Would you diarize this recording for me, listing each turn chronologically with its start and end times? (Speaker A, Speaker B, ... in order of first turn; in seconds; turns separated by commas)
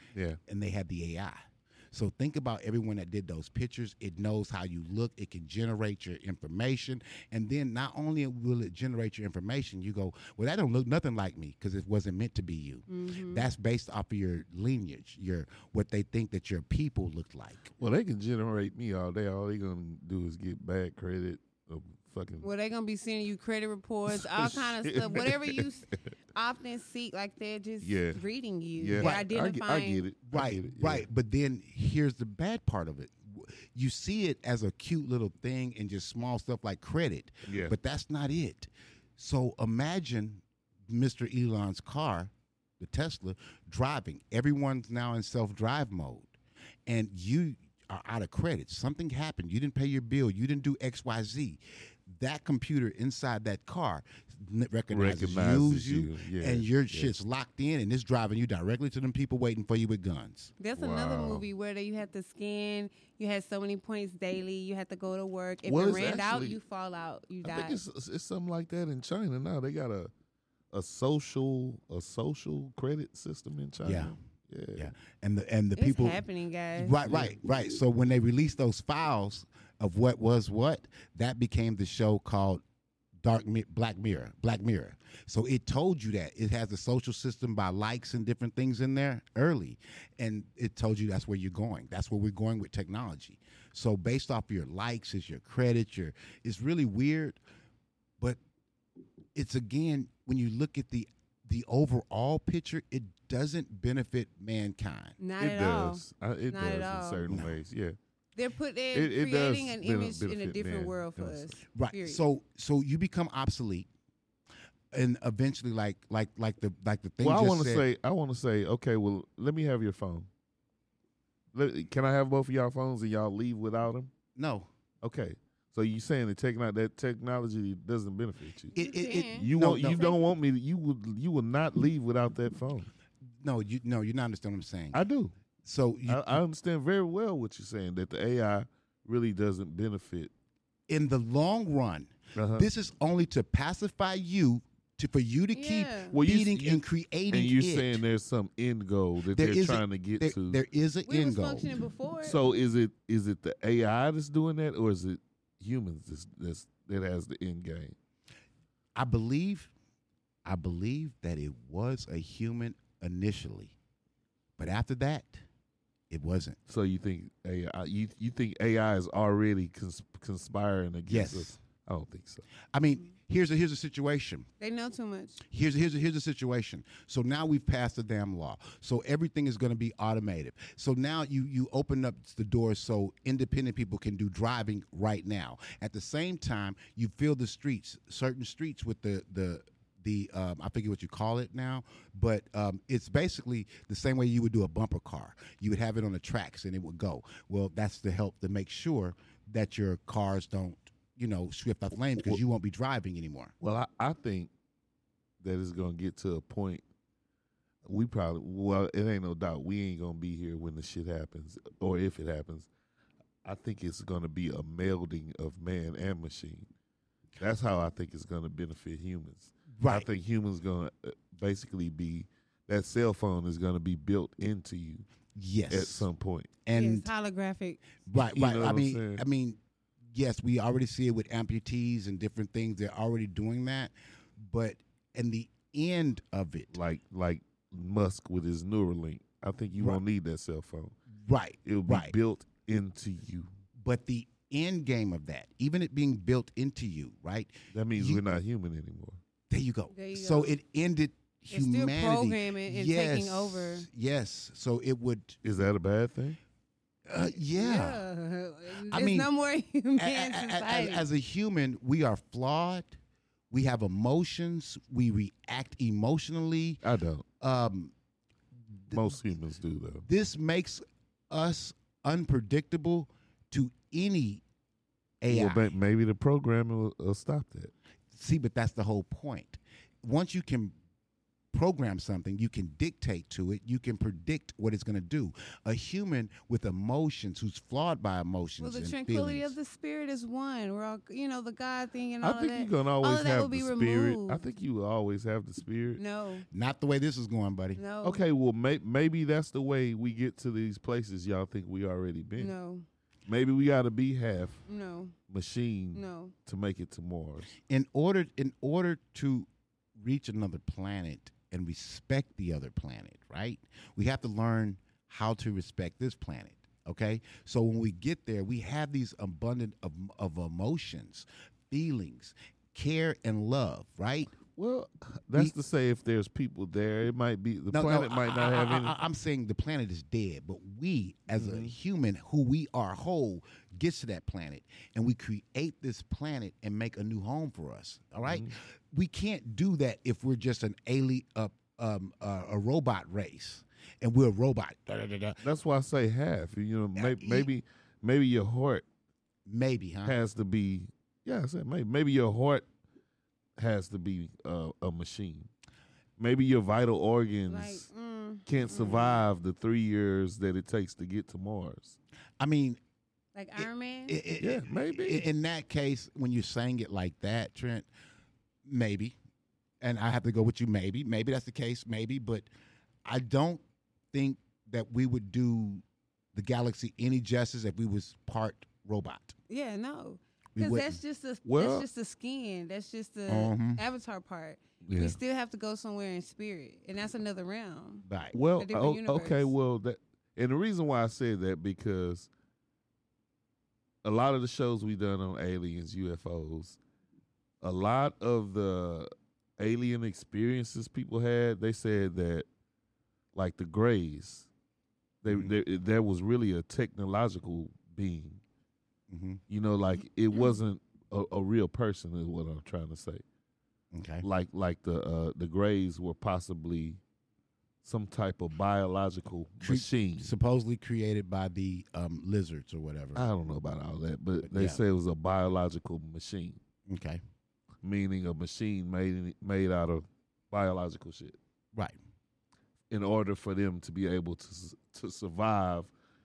Speaker A: 0.5-17.7, Speaker B: 12.9-13.5, Speaker C: 17.8-22.5, Speaker B: 22.4-30.1, Speaker C: 24.1-25.6, Speaker C: 27.8-28.2, Speaker C: 28.8-31.1, Speaker A: 29.0-29.3, Speaker A: 30.3-46.4, Speaker C: 37.5-37.8, Speaker A: 46.9-60.5, Speaker C: 54.9-57.2, Speaker B: 60.6-67.8, Speaker C: 60.8-61.5, Speaker C: 65.7-66.6, Speaker C: 67.4-70.1, Speaker C: 70.7-74.9, Speaker A: 73.8-74.2, Speaker A: 74.8-76.2, Speaker B: 75.8-77.0, Speaker A: 76.8-82.6, Speaker C: 77.1-77.3, Speaker A: 83.2-97.4, Speaker A: 99.3-105.2, Speaker B: 105.2-107.2, Speaker C: 105.4-108.0, Speaker A: 107.3-107.5, Speaker B: 108.4-112.2, Speaker C: 108.9-111.6, Speaker A: 111.8-113.9, Speaker A: 114.9-117.9, Speaker C: 117.2-120.3, Speaker C: 121.5-124.1, Speaker A: 124.3-124.7, Speaker C: 125.0-128.8, Speaker B: 128.7-130.2, Speaker A: 128.8-130.1, Speaker C: 129.4-132.9, Speaker A: 133.4-135.0, Speaker C: 134.9-135.3, Speaker A: 135.6-136.4, Speaker C: 136.1-140.3, Speaker A: 140.9-148.0, Speaker C: 142.4-142.7, Speaker B: 145.5-146.2, Speaker C: 146.1-150.6, Speaker A: 149.3-151.8, Speaker B: 151.1-152.4, Speaker C: 152.2-157.9, Speaker A: 158.9-159.7, Speaker A: 160.4-163.8, Speaker A: 164.6-165.4, Speaker A: 166.1-166.6, Speaker C: 166.7-172.5, Speaker A: 171.1-171.6, Speaker A: 172.7-174.5, Speaker B: 174.6-175.4, Speaker A: 175.5-203.5, Speaker C: 203.6-204.5, Speaker C: 205.4-206.8, Speaker C: 207.8-212.7, Speaker C: 213.4-216.7, Speaker C: 217.4-225.1, Speaker A: 219.8-220.1, Speaker A: 225.3-226.1, Speaker C: 225.7-226.5, Speaker A: 226.7-227.1, Speaker B: 226.7-227.8, Speaker A: 228.1-229.6, Speaker C: 228.3-229.2, Speaker A: 230.1-236.8, Speaker C: 236.7-240.9, Speaker A: 241.2-242.1, Speaker C: 241.7-243.5, Speaker A: 243.8-248.3, Speaker C: 247.7-249.2, Speaker A: 249.5-255.4, Speaker B: 249.9-250.6, Speaker B: 251.5-253.9, Speaker C: 255.4-256.4, Speaker A: 257.1-258.0, Speaker B: 257.6-261.1, Speaker A: 258.8-259.3, Speaker A: 260.0-263.0, Speaker A: 263.5-266.8, Speaker C: 266.8-267.3, Speaker A: 267.4-267.9, Speaker A: 268.9-269.2, Speaker C: 268.9-270.1, Speaker A: 270.1-274.4, Speaker A: 275.2-275.7, Speaker C: 275.3-277.7, Speaker A: 278.1-280.8, Speaker A: 281.5-289.6, Speaker B: 288.6-294.4, Speaker C: 292.2-296.0, Speaker B: 296.0-296.4, Speaker A: 296.5-297.8, Speaker B: 297.8-298.2, Speaker C: 298.0-302.5, Speaker B: 302.4-302.9, Speaker C: 303.3-304.6, Speaker B: 304.7-305.1, Speaker C: 305.3-307.5, Speaker B: 305.9-306.3, Speaker A: 307.7-324.3, Speaker C: 324.5-328.9, Speaker A: 327.7-345.4, Speaker C: 331.4-331.7, Speaker C: 338.2-338.5, Speaker C: 345.4-348.9, Speaker A: 347.0-347.5, Speaker A: 349.5-350.2, Speaker C: 350.1-352.7, Speaker C: 353.6-355.5, Speaker C: 356.2-357.9, Speaker B: 357.5-359.2, Speaker C: 358.5-362.0, Speaker A: 362.4-362.8, Speaker B: 363.4-364.2, Speaker A: 363.6-367.9, Speaker C: 364.4-365.3, Speaker A: 368.6-369.2, Speaker A: 369.8-372.5, Speaker A: 373.1-373.6, Speaker A: 374.1-375.8, Speaker A: 376.3-379.4, Speaker B: 379.5-388.1, Speaker A: 380.6-381.0, Speaker C: 381.4-381.9, Speaker A: 383.3-383.8, Speaker C: 384.9-385.2, Speaker A: 388.1-388.4, Speaker C: 388.3-392.3, Speaker B: 388.6-389.5, Speaker C: 394.0-396.8, Speaker C: 397.6-402.5, Speaker C: 403.3-404.5, Speaker C: 405.2-408.4, Speaker A: 405.3-405.6, Speaker A: 409.1-409.4, Speaker C: 409.5-413.2, Speaker A: 413.9-414.2, Speaker C: 414.2-417.0, Speaker C: 417.8-420.3, Speaker A: 419.6-423.3, Speaker C: 423.1-426.6, Speaker A: 424.4-424.8, Speaker A: 426.9-427.2, Speaker C: 427.8-431.4, Speaker C: 432.9-435.9